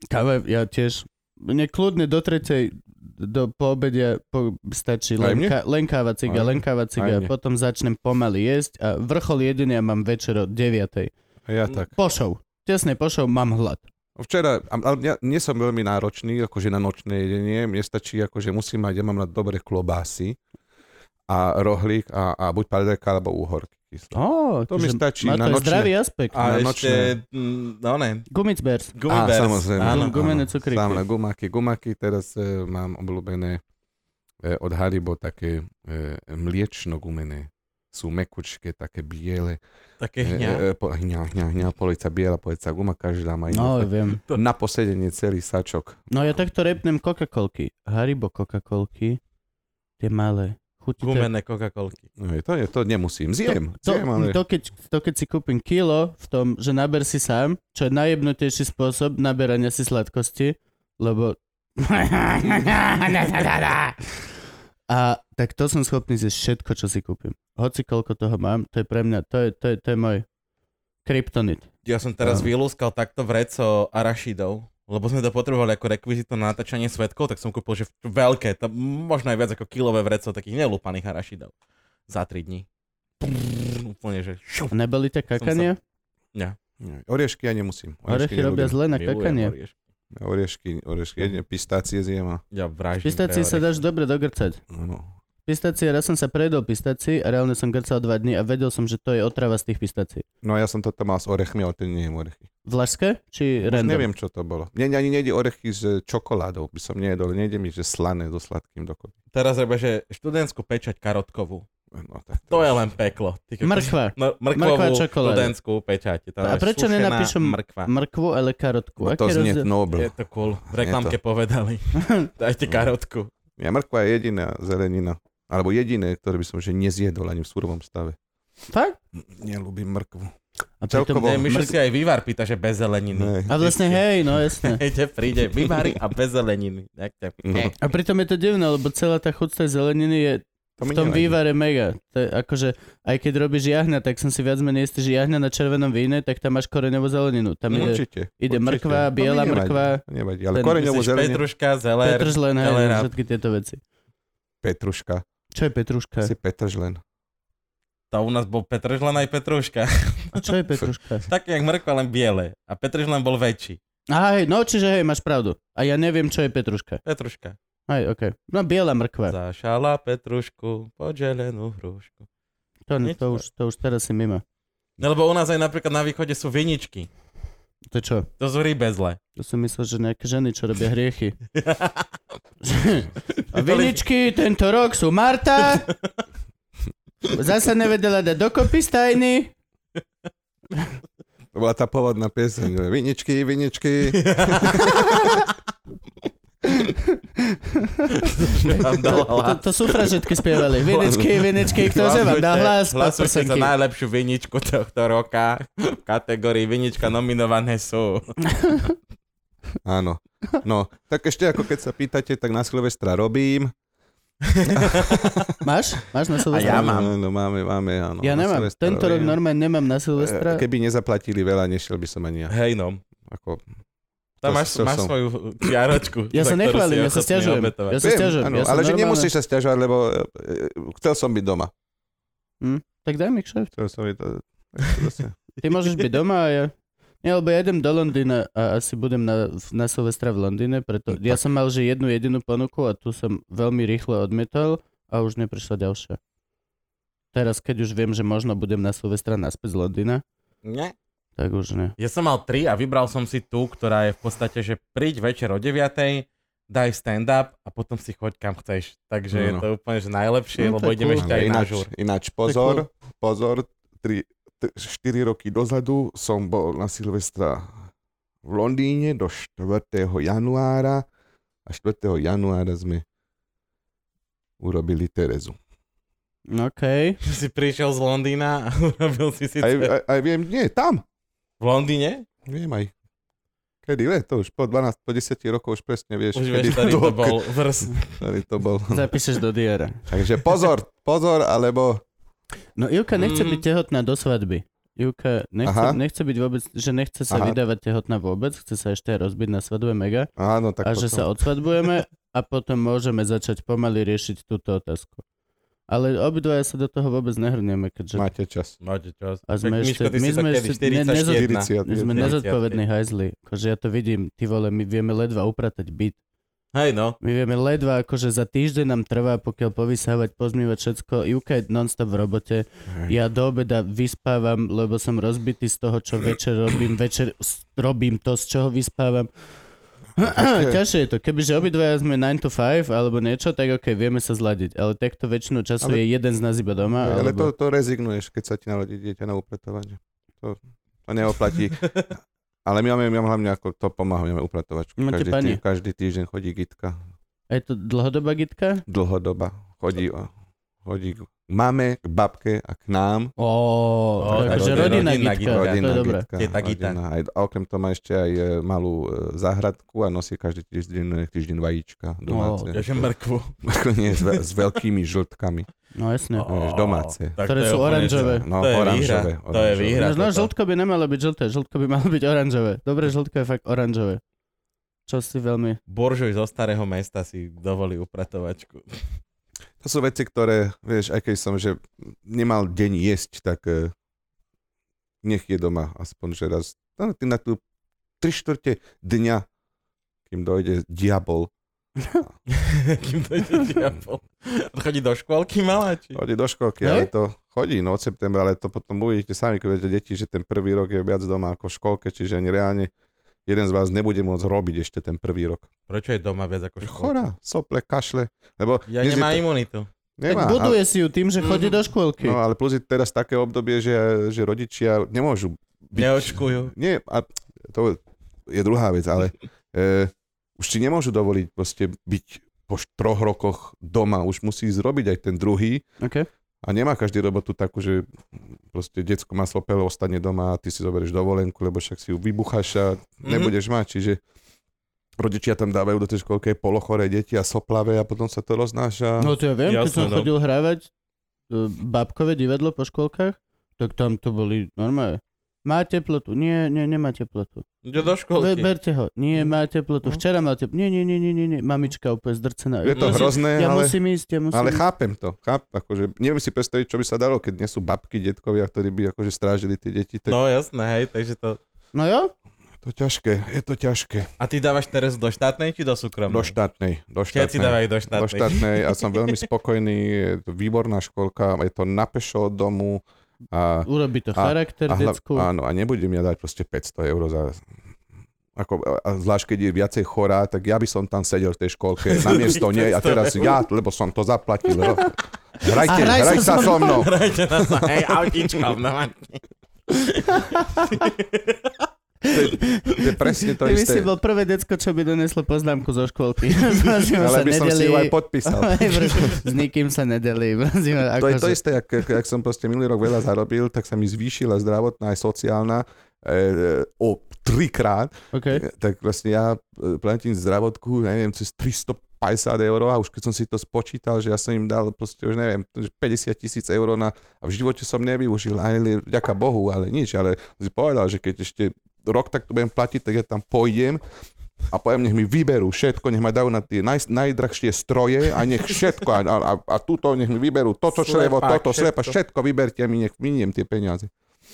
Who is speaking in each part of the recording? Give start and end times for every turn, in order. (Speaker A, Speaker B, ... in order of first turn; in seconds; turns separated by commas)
Speaker A: 0.1-11.1, Speaker B: 5.2-5.5, Speaker B: 6.2-7.3, Speaker B: 11.5-11.9, Speaker A: 11.9-13.8, Speaker B: 14.2-20.4, Speaker B: 21.3-24.2, Speaker A: 24.1-26.4, Speaker B: 24.7-27.1, Speaker C: 26.3-28.3, Speaker A: 28.3-29.0, Speaker C: 28.9-30.1, Speaker B: 29.1-33.6, Speaker A: 29.8-31.0, Speaker B: 34.4-39.6, Speaker C: 40.0-40.6, Speaker B: 40.2-46.0, Speaker A: 43.5-44.2, Speaker A: 46.1-49.2, Speaker A: 50.0-51.3, Speaker C: 51.0-52.0, Speaker B: 52.2-54.4, Speaker A: 53.5-64.0, Speaker A: 64.9-70.2, Speaker A: 71.0-71.7, Speaker C: 71.8-81.5, Speaker C: 82.1-82.7, Speaker C: 83.2-84.7, Speaker A: 84.7-85.8, Speaker C: 85.4-85.7, Speaker B: 86.8-88.8, Speaker A: 88.1-89.5, Speaker C: 88.9-89.7, Speaker B: 90.1-92.4, Speaker C: 92.5-93.8, Speaker A: 93.0-94.6, Speaker B: 94.7-95.1, Speaker A: 95.5-100.2, Speaker B: 100.4-102.5, Speaker A: 102.6-104.1, Speaker B: 103.6-109.1, Speaker C: 109.3-111.7, Speaker B: 111.9-112.8, Speaker C: 112.5-117.9, Speaker A: 113.6-115.5, Speaker A: 116.4-119.7, Speaker B: 119.0-120.1, Speaker C: 119.9-123.3, Speaker B: 120.6-121.2, Speaker A: 122.0-122.3, Speaker B: 123.6-128.2, Speaker A: 128.7-129.0, Speaker B: 129.1-130.3, Speaker A: 130.8-131.7, Speaker B: 130.9-131.7, Speaker C: 131.2-137.7, Speaker B: 133.1-133.5, Speaker A: 133.5-134.8, Speaker B: 137.4-137.7, Speaker A: 137.8-150.0, Speaker B: 140.8-141.4, Speaker B: 147.7-151.4, Speaker C: 150.7-153.1, Speaker A: 152.0-153.8, Speaker B: 154.6-155.2, Speaker A: 155.5-156.3, Speaker B: 156.2-157.0, Speaker C: 158.1-160.5, Speaker A: 160.3-161.2, Speaker C: 161.3-163.8, Speaker A: 164.1-167.0, Speaker C: 167.0-167.6, Speaker A: 167.9-169.3, Speaker C: 169.3-172.2, Speaker A: 172.9-174.4, Speaker C: 173.0-173.3, Speaker C: 175.0-177.1, Speaker A: 177.9-178.3, Speaker C: 178.4-179.2, Speaker A: 179.3-181.4, Speaker C: 181.5-182.1, Speaker A: 182.6-185.9, Speaker C: 183.3-184.0, Speaker A: 187.3-189.5, Speaker B: 191.5-195.4, Speaker C: 194.1-195.4, Speaker A: 196.8-203.7, Speaker C: 198.1-200.1, Speaker C: 200.8-208.8, Speaker B: 201.9-202.3, Speaker A: 208.5-208.9, Speaker B: 209.8-213.7, Speaker C: 214.4-215.5, Speaker B: 214.7-215.5, Speaker A: 215.6-217.0, Speaker C: 216.5-217.1, Speaker B: 216.6-219.4, Speaker A: 218.2-220.6, Speaker B: 220.2-222.5, Speaker C: 222.5-223.0, Speaker B: 223.2-223.6, Speaker C: 224.4-228.0, Speaker B: 224.4-225.1, Speaker A: 226.3-229.3, Speaker B: 228.0-231.7, Speaker A: 232.6-233.7, Speaker B: 233.7-235.4, Speaker A: 235.6-246.2, Speaker B: 241.1-241.4, Speaker A: 247.3-250.2, Speaker C: 250.6-250.9, Speaker A: 251.4-251.9, Speaker C: 252.0-261.9, Speaker B: 259.3-259.6, Speaker A: 260.6-261.4, Speaker B: 261.2-267.9, Speaker A: 262.4-262.8, Speaker B: 268.4-271.1, Speaker B: 271.6-273.0, Speaker B: 274.6-275.6, Speaker A: 276.5-277.2, Speaker C: 277.2-279.9, Speaker B: 279.6-281.0, Speaker C: 281.6-282.2, Speaker B: 282.4-282.9, Speaker B: 283.8-287.5, Speaker C: 286.3-288.2, Speaker B: 288.1-289.1, Speaker A: 288.9-290.1, Speaker B: 290.1-292.0, Speaker A: 292.8-300.3, Speaker C: 293.1-293.6, Speaker B: 295.6-296.0, Speaker B: 297.3-297.6, Speaker B: 300.4-301.3, Speaker A: 300.8-305.2, Speaker A: 305.9-308.3, Speaker B: 308.1-308.8, Speaker C: 308.8-312.8, Speaker A: 309.5-316.2, Speaker B: 311.3-312.4, Speaker C: 316.7-317.2, Speaker A: 317.2-329.3, Speaker A: 330.2-337.5, Speaker B: 330.2-330.8, Speaker B: 337.0-342.0, Speaker B: 342.6-347.0, Speaker A: 345.0-345.6, Speaker A: 347.5-348.8, Speaker B: 348.9-350.3, Speaker B: 350.8-353.3, Speaker A: 353.4-356.2, Speaker C: 354.2-357.0, Speaker B: 354.2-363.1, Speaker A: 362.3-362.8, Speaker C: 362.7-363.5, Speaker B: 363.6-365.7, Speaker A: 365.9-366.5, Speaker C: 366.4-370.5, Speaker B: 366.5-370.1, Speaker A: 367.4-368.4, Speaker A: 370.0-374.2, Speaker A: 375.1-375.8, Speaker C: 375.9-379.0, Speaker B: 379.8-383.9, Speaker B: 385.2-387.6, Speaker B: 388.2-389.4, Speaker B: 390.3-391.5, Speaker C: 392.5-396.2, Speaker B: 396.1-402.9, Speaker A: 396.8-397.1, Speaker B: 403.4-405.7, Speaker C: 405.9-407.2, Speaker B: 406.8-409.4, Speaker C: 408.9-409.9, Speaker B: 410.2-410.8, Speaker A: 410.3-412.4, Speaker C: 411.4-411.8, Speaker B: 412.2-425.8, Speaker C: 415.9-416.7, Speaker A: 426.0-426.2, Speaker B: 426.6-428.1, Speaker B: 428.7-434.2, Speaker C: 433.2-433.5, Speaker B: 435.2-439.3, Speaker A: 439.2-440.9, Speaker C: 439.6-440.3, Speaker A: 441.5-447.6, Speaker C: 447.8-448.7, Speaker A: 448.4-454.8, Speaker B: 452.8-454.0, Speaker C: 452.9-453.3, Speaker B: 454.5-460.4, Speaker C: 460.3-461.6, Speaker A: 461.9-462.3, Speaker B: 462.8-464.3, Speaker C: 464.4-466.6, Speaker B: 466.3-477.6, Speaker C: 467.3-469.1, Speaker A: 473.9-475.5, Speaker B: 478.5-488.6, Speaker C: 482.1-483.6, Speaker A: 485.8-487.1, Speaker C: 486.7-489.4, Speaker C: 489.9-491.9, Speaker A: 490.5-491.0, Speaker A: 492.2-501.6, Speaker B: 492.3-494.1, Speaker B: 497.2-499.4, Speaker B: 501.2-524.0, Speaker A: 508.3-508.6, Speaker B: 524.7-534.1, Speaker C: 530.9-532.1